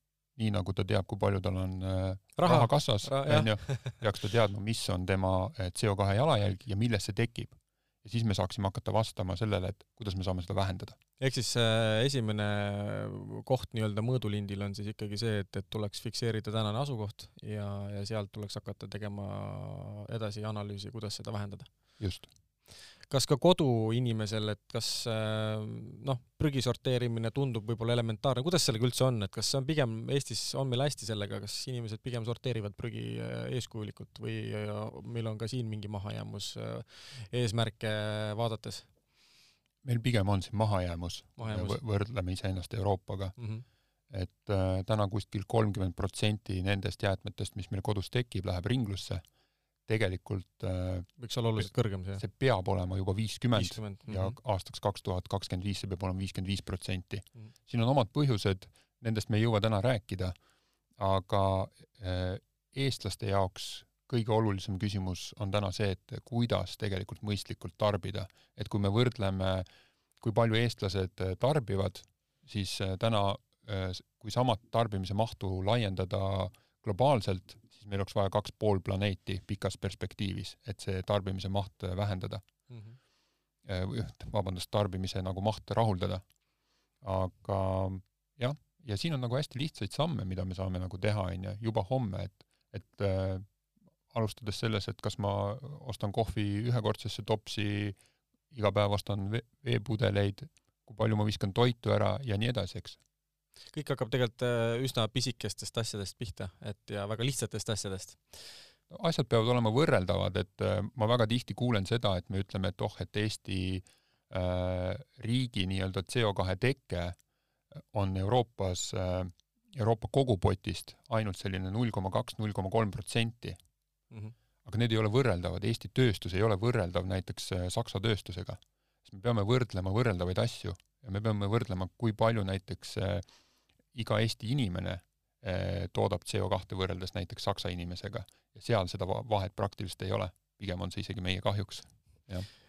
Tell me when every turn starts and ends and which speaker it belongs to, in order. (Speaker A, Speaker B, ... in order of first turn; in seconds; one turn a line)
Speaker A: 0.3-11.0
Speaker B: 2.4-3.9
Speaker B: 11.2-21.7
Speaker A: 22.0-22.2
Speaker B: 23.1-38.9
Speaker A: 39.8-43.3
Speaker B: 41.4-41.8
Speaker B: 43.4-43.6
Speaker A: 44.1-49.2
Speaker A: 49.9-60.3
Speaker B: 51.2-52.2
Speaker B: 53.5-54.3
Speaker A: 61.0-69.7
Speaker A: 70.2-82.4
Speaker B: 82.7-83.0
Speaker A: 83.7-86.2
Speaker A: 87.0-93.4
Speaker A: 94.1-98.0
Speaker A: 98.5-103.0
Speaker B: 103.7-108.2
Speaker A: 108.9-117.2
Speaker A: 117.8-123.6
Speaker A: 124.6-133.2
Speaker A: 133.9-142.5